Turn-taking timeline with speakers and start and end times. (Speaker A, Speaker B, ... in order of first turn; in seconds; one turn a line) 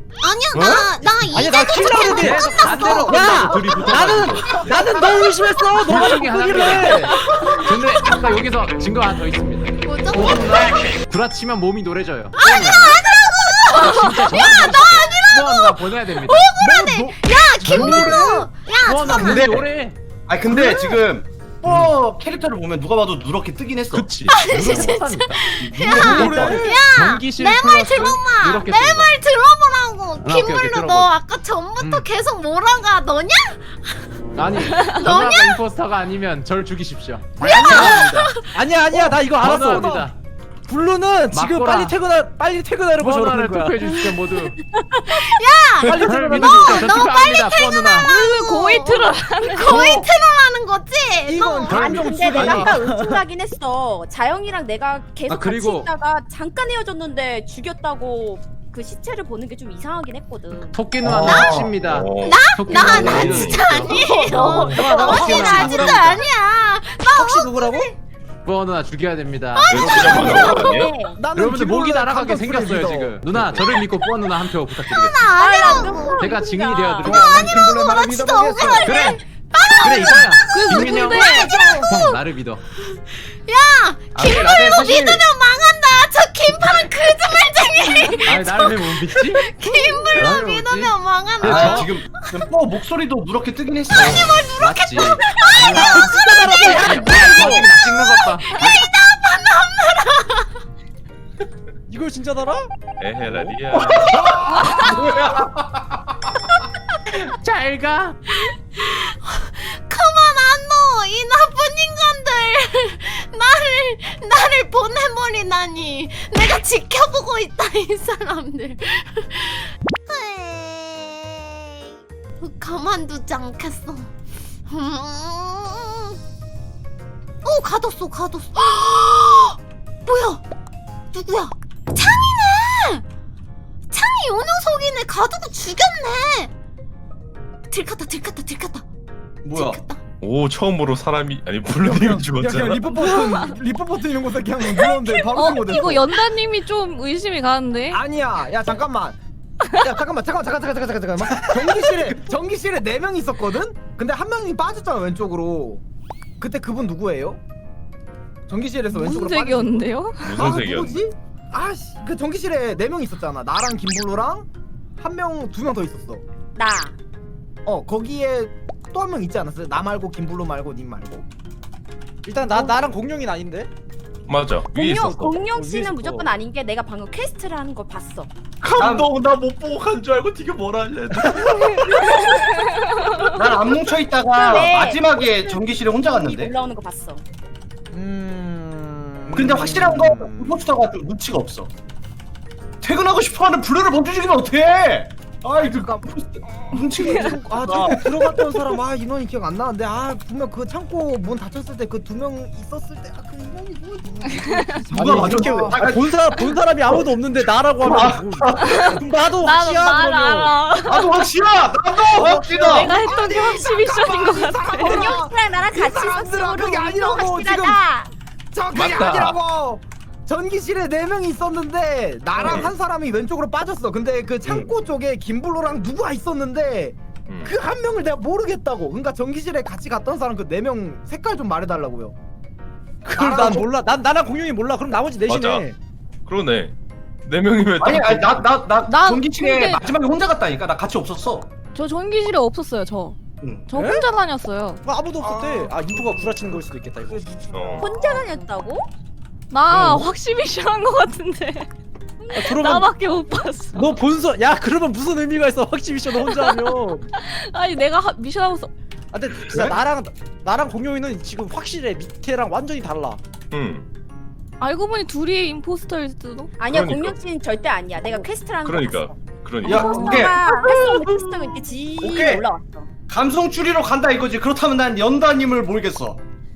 Speaker A: 0.2-4.0
Speaker B: 0.5-7.1
Speaker C: 0.6-1.4
Speaker C: 2.0-4.8
Speaker D: 4.3-4.8
Speaker A: 4.5-5.6
Speaker C: 5.8-13.0
Speaker A: 6.4-8.2
Speaker A: 9.8-10.9
Speaker A: 12.4-19.5
Speaker C: 13.7-16.5
Speaker D: 16.6-18.4
Speaker C: 17.6-20.0
Speaker E: 17.9-18.2
Speaker E: 19.1-19.7
Speaker E: 20.3-24.1
Speaker A: 20.5-21.0
Speaker C: 21.7-21.9
Speaker C: 23.9-29.1
Speaker A: 24.3-34.2
Speaker E: 25.8-26.6
Speaker D: 25.9-26.6
Speaker F: 26.2-26.6
Speaker C: 30.2-31.1
Speaker C: 31.8-32.1
Speaker C: 34.4-38.4
Speaker A: 34.8-35.6
Speaker A: 37.4-38.6
Speaker B: 37.5-39.9
Speaker D: 38.8-40.1
Speaker C: 39.4-40.2
Speaker B: 40.7-43.8
Speaker C: 41.3-42.0
Speaker C: 43.0-44.6
Speaker A: 45.1-52.0
Speaker B: 45.8-46.9
Speaker C: 45.9-48.1
Speaker G: 48.0-50.0
Speaker D: 49.7-50.0
Speaker D: 51.2-53.2
Speaker H: 51.7-60.8
Speaker C: 51.7-52.1
Speaker C: 55.3-55.9
Speaker C: 60.7-64.0
Speaker E: 61.0-61.8
Speaker F: 61.3-63.7
Speaker A: 62.2-68.0
Speaker H: 63.9-64.4
Speaker F: 64.3-65.0
Speaker C: 64.5-66.3
Speaker B: 64.7-65.9
Speaker E: 65.5-65.9
Speaker B: 67.1-67.9
Speaker C: 68.5-70.6
Speaker A: 69.5-70.2
Speaker F: 69.7-70.9
Speaker H: 70.0-71.2
Speaker D: 71.1-73.7
Speaker C: 71.3-75.3
Speaker A: 74.8-76.4
Speaker H: 75.3-77.2
Speaker C: 76.2-77.7
Speaker D: 77.0-78.9
Speaker A: 77.4-82.2
Speaker C: 78.8-79.2
Speaker C: 79.8-82.6
Speaker G: 80.5-81.5
Speaker D: 81.2-81.9
Speaker A: 82.8-92.4
Speaker E: 84.2-85.3
Speaker C: 88.2-89.5
Speaker C: 90.1-92.0
Speaker E: 91.4-94.3
Speaker A: 93.9-97.0
Speaker C: 94.6-98.5
Speaker B: 96.0-97.7
Speaker A: 97.8-100.5
Speaker B: 101.9-102.7
Speaker F: 103.0-104.3
Speaker B: 103.2-103.6
Speaker E: 103.8-104.0
Speaker D: 104.1-105.0
Speaker A: 104.3-104.8
Speaker C: 107.1-108.2
Speaker A: 108.3-124.1
Speaker A: 124.7-126.2
Speaker A: 127.4-130.4
Speaker A: 131.1-133.0
Speaker A: 133.9-136.5
Speaker A: 137.7-138.9
Speaker E: 139.4-139.8
Speaker A: 139.5-140.0
Speaker F: 140.2-143.0
Speaker D: 141.8-146.1
Speaker G: 143.0-143.5
Speaker G: 145.2-148.0
Speaker D: 147.9-149.2
Speaker D: 149.7-155.8
Speaker D: 156.4-157.4
Speaker D: 158.5-164.5
Speaker G: 158.9-160.5
Speaker F: 160.2-161.0
Speaker D: 165.0-166.2
Speaker H: 166.6-166.9
Speaker D: 167.7-171.3
Speaker B: 172.2-173.7
Speaker F: 174.3-175.4
Speaker H: 174.7-178.3
Speaker B: 175.6-176.3
Speaker F: 178.6-182.2
Speaker E: 178.8-179.1
Speaker E: 183.3-186.5
Speaker H: 184.3-187.2
Speaker D: 187.9-190.7
Speaker E: 189.3-191.7
Speaker E: 192.8-198.1
Speaker D: 195.8-196.0
Speaker D: 196.7-205.8
Speaker G: 197.0-197.3
Speaker G: 204.3-205.4
Speaker E: 204.9-207.1
Speaker B: 205.0-210.6
Speaker E: 207.8-209.0
Speaker G: 208.6-211.2
Speaker E: 210.8-213.0
Speaker D: 212.1-217.8
Speaker G: 212.6-215.0
Speaker H: 214.8-218.1
Speaker D: 218.5-232.2
Speaker F: 218.7-219.4
Speaker F: 222.4-222.7
Speaker F: 227.3-227.5
Speaker B: 233.1-235.8
Speaker D: 233.1-233.7
Speaker F: 235.2-235.7
Speaker F: 236.3-236.7
Speaker F: 237.3-238.5
Speaker E: 237.8-241.5
Speaker G: 238.9-239.9
Speaker G: 241.7-245.7
Speaker E: 243.4-243.7
Speaker B: 243.7-244.1
Speaker B: 244.8-247.5
Speaker D: 245.9-246.3
Speaker D: 247.1-247.8
Speaker F: 247.5-247.9
Speaker H: 247.8-248.9
Speaker G: 249.5-251.7
Speaker B: 249.7-250.1
Speaker H: 252.2-252.5
Speaker G: 252.3-253.9
Speaker B: 252.4-252.9
Speaker B: 253.7-257.1
Speaker G: 256.1-258.7
Speaker B: 259.1-263.2
Speaker F: 259.3-259.8
Speaker F: 263.5-263.9
Speaker G: 264.6-266.5
Speaker H: 266.6-269.2
Speaker F: 266.7-267.2
Speaker F: 268.6-270.2
Speaker E: 269.6-270.4
Speaker G: 269.6-271.3
Speaker H: 269.8-272.9
Speaker E: 272.0-272.5
Speaker E: 273.1-276.2